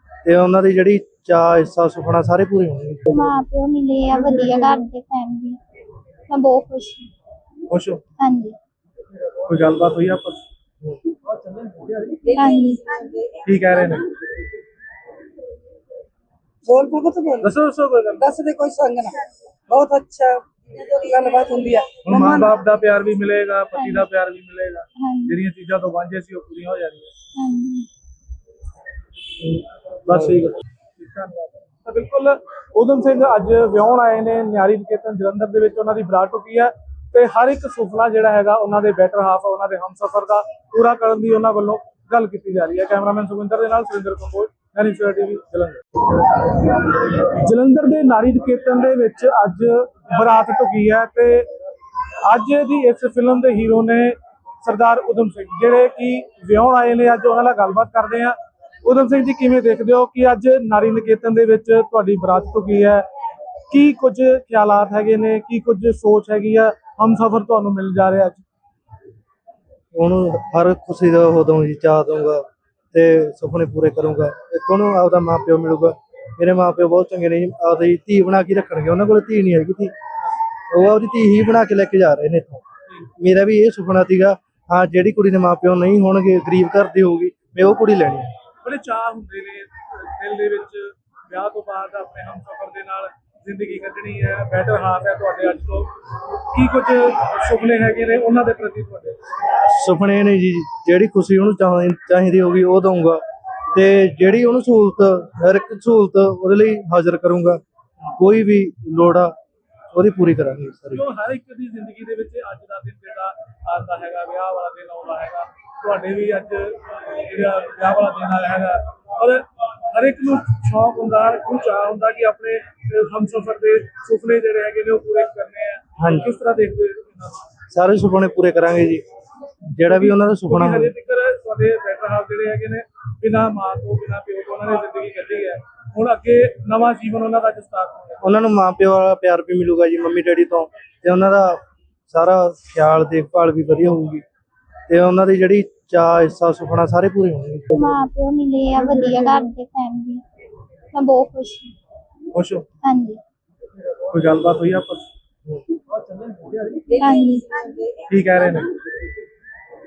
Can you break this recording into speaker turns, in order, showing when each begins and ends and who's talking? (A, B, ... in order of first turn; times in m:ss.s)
0:00.2-0:03.3 A
0:03.1-0:05.6 B
0:06.3-0:07.1 B
0:07.7-0:08.0 C
0:08.2-0:08.6 B
0:09.5-0:10.4 C
0:11.5-0:13.4 D
0:12.3-0:12.9 B
0:13.4-0:14.1 C
0:16.6-0:17.5 D
0:17.4-0:18.3 C
0:18.2-0:22.5 D
0:22.0-0:27.1 C
0:23.8-0:24.1 B
0:25.0-0:25.4 B
0:27.4-0:27.9 B
0:30.0-0:45.8 C
0:47.1-0:51.5 C
0:52.2-1:03.0 C
1:03.7-1:08.4 C
1:09.9-1:19.9 A
1:20.7-1:22.6 A
1:23.2-1:28.3 A
1:28.6-1:35.9 C
1:36.5-1:39.2 C
1:39.5-1:47.6 A
1:48.2-1:49.3 A
1:49.9-1:51.0 A
1:50.9-2:07.4 C
2:06.0-2:06.3 A
2:07.7-2:09.0 A
2:09.7-2:10.9 A
2:09.9-2:18.3 C
2:18.2-2:24.2 A
2:24.9-2:27.8 A
2:27.7-2:30.2 B
2:30.9-2:31.7 B
2:32.3-2:32.6 C
2:32.8-2:33.2 B
2:34.1-2:35.1 C
2:36.1-2:38.1 D
2:37.0-2:37.6 B
2:38.1-2:38.7 C